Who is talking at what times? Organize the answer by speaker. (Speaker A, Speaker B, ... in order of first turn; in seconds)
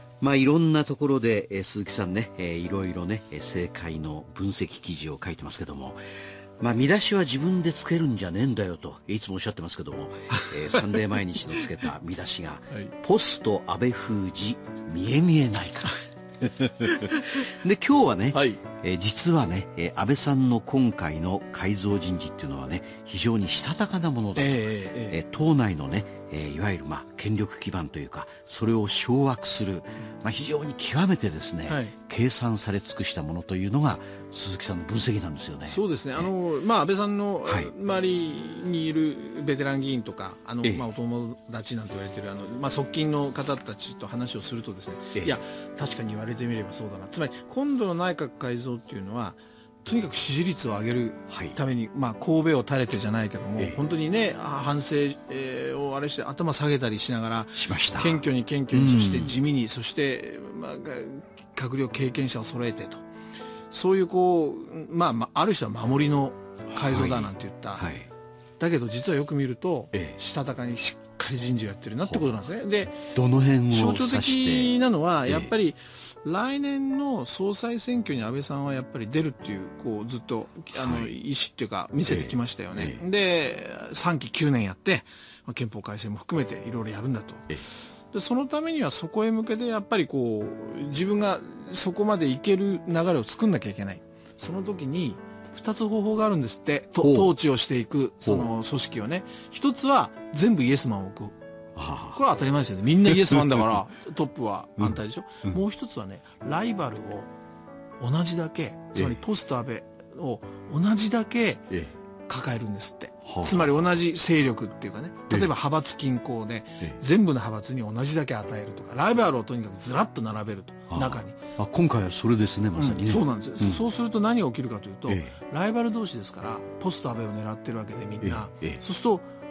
Speaker A: 0.2-6.0, 6.6-36.3, 37.5-37.7, 51.3-51.6, 57.6-59.4, 66.7-68.1, 73.1-74.7, 80.8-81.1, 82.1-83.0, 97.0-97.3, 98.2-98.5, 101.8-102.2, 103.2-103.8, 113.2-113.7, 120.9-123.8, 125.1-125.4, 128.2-128.8
Speaker B: 16.9-17.3, 18.3-18.6, 24.4-25.2, 31.7-31.9, 35.7-63.0, 63.7-67.9, 68.6-73.1, 73.7-87.6, 88.1-101.4, 102.1-107.3, 108.0-111.7, 112.3-121.4, 122.8-129.3